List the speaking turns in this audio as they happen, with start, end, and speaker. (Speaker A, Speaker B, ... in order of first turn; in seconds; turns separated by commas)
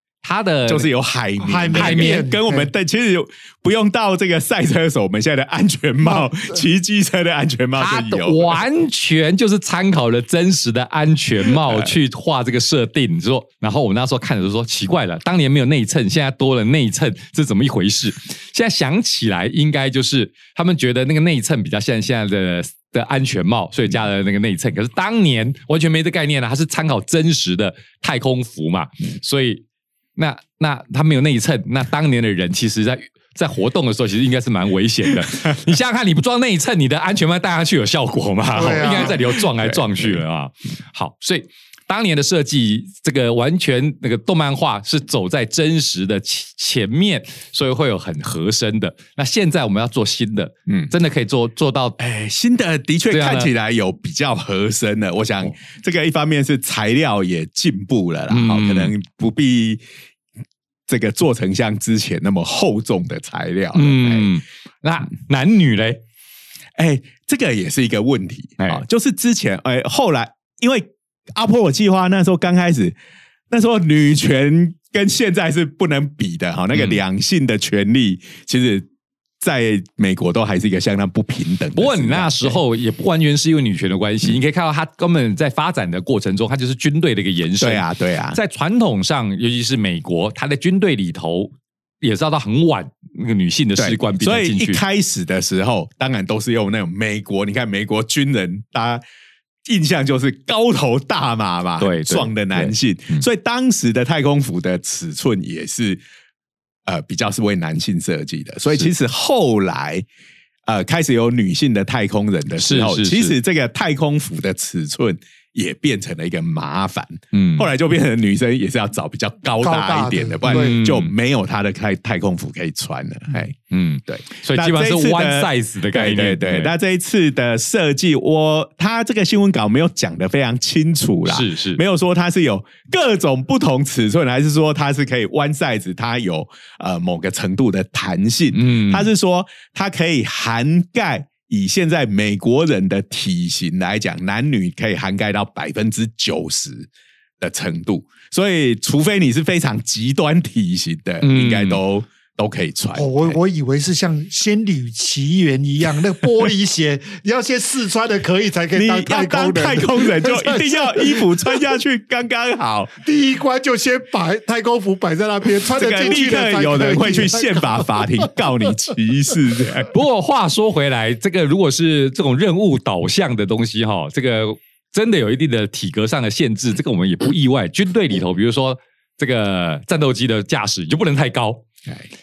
Speaker A: 0.2-0.9, Speaker B: 0.7-8.6, Speaker C: 1.4-2.7, Speaker A: 1.8-2.3, Speaker A: 7.8-29.6, Speaker B: 11.6-12.0, Speaker A: 30.2-52.0, Speaker C: 38.5-39.2, Speaker B: 38.9-40.2, Speaker B: 52.0-59.8, Speaker A: 53.1-53.5, Speaker A: 58.3-58.9, Speaker B: 60.9-64.3, Speaker A: 63.7-66.0, Speaker B: 66.8-73.0, Speaker B: 73.5-78.9, Speaker B: 79.4-82.6, Speaker A: 81.8-94.8, Speaker B: 87.6-88.4, Speaker B: 93.8-99.0, Speaker B: 99.7-106.0, Speaker A: 101.8-103.2, Speaker B: 106.9-110.1, Speaker B: 110.7-146.9, Speaker A: 112.6-113.3, Speaker A: 117.3-117.7, Speaker C: 119.6-120.8, Speaker A: 120.4-121.1, Speaker A: 123.7-126.7, Speaker A: 131.3-131.8, Speaker A: 138.5-139.1, Speaker B: 147.4-153.4, Speaker A: 151.2-151.8, Speaker C: 152.9-161.3, Speaker B: 158.8-162.9, Speaker C: 163.0-168.7, Speaker B: 165.7-169.9, Speaker A: 169.9-181.6